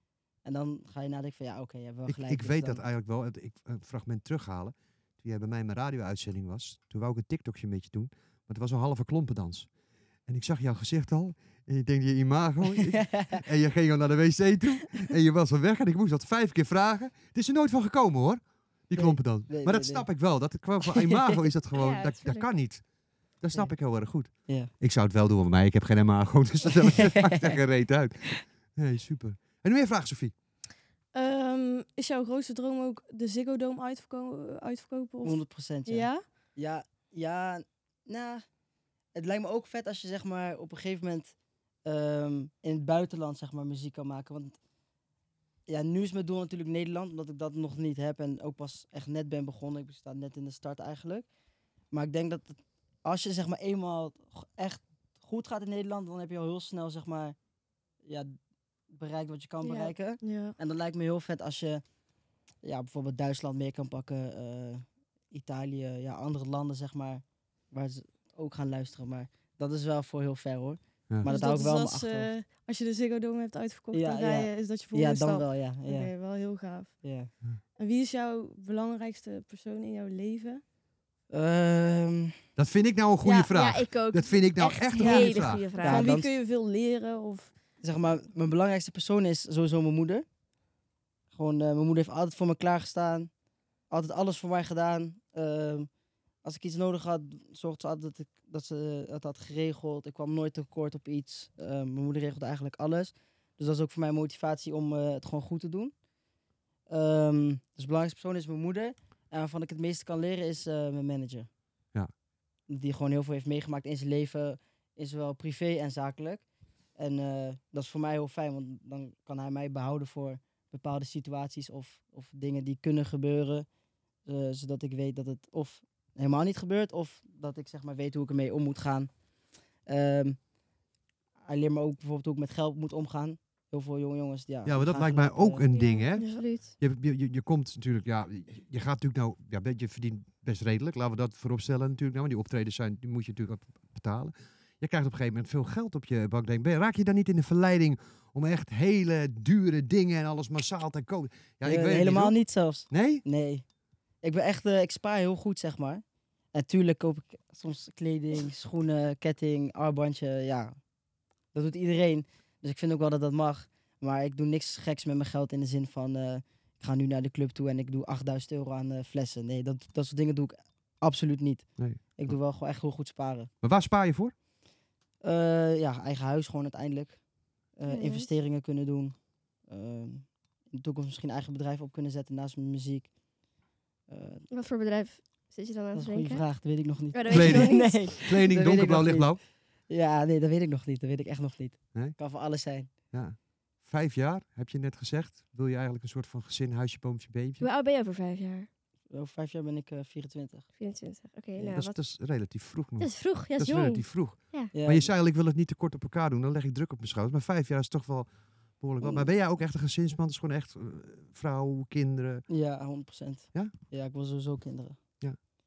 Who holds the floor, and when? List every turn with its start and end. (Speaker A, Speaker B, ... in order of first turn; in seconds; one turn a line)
Speaker A: 0.4-2.8
Speaker B: 2.0-9.7
Speaker B: 10.2-22.8
Speaker A: 12.7-13.4
Speaker A: 18.9-20.1
Speaker A: 20.9-21.3
Speaker C: 21.7-22.5
Speaker B: 23.4-30.3
Speaker A: 26.8-27.6
Speaker D: 31.1-36.2
Speaker A: 35.2-38.4
Speaker A: 39.1-44.6
Speaker A: 45.7-51.3
Speaker A: 51.9-57.4
Speaker A: 58.0-58.4
Speaker A: 58.9-61.8
Speaker C: 59.6-59.9
Speaker D: 60.2-60.5
Speaker A: 62.6-72.3
Speaker D: 71.2-77.0
Speaker A: 73.9-76.1
Speaker A: 77.0-77.3
Speaker D: 77.8-80.6
Speaker A: 81.3-82.3
Speaker B: 82.6-85.7
Speaker C: 83.2-86.1
Speaker D: 85.0-87.5
Speaker A: 85.8-86.3
Speaker A: 87.8-90.2
Speaker A: 91.3-93.3
Speaker A: 93.9-95.9
Speaker A: 96.4-105.9
Speaker A: 106.9-111.5
Speaker A: 112.7-116.4
Speaker A: 117.0-123.7
Speaker A: 124.2-129.1
Speaker A: 129.8-130.4
Speaker A: 131.4-135.7
Speaker B: 134.6-153.2
Speaker C: 135.7-136.6
Speaker D: 136.1-136.5
Speaker A: 151.6-153.6
Speaker A: 154.2-160.8
Speaker A: 161.5-173.5
Speaker B: 171.8-172.4
Speaker B: 173.6-174.3
Speaker A: 175.2-177.2
Speaker A: 177.7-183.1
Speaker C: 177.8-178.3
Speaker A: 184.1-184.4
Speaker C: 184.5-186.4
Speaker A: 185.9-192.9
Speaker C: 187.1-188.1
Speaker B: 187.3-189.4
Speaker B: 193.1-197.6
Speaker C: 197.6-198.7
Speaker A: 199.1-200.7
Speaker C: 200.8-202.0
Speaker B: 201.7-212.4
Speaker C: 203.0-204.7
Speaker A: 204.7-205.1
Speaker A: 209.0-209.3
Speaker A: 212.5-215.0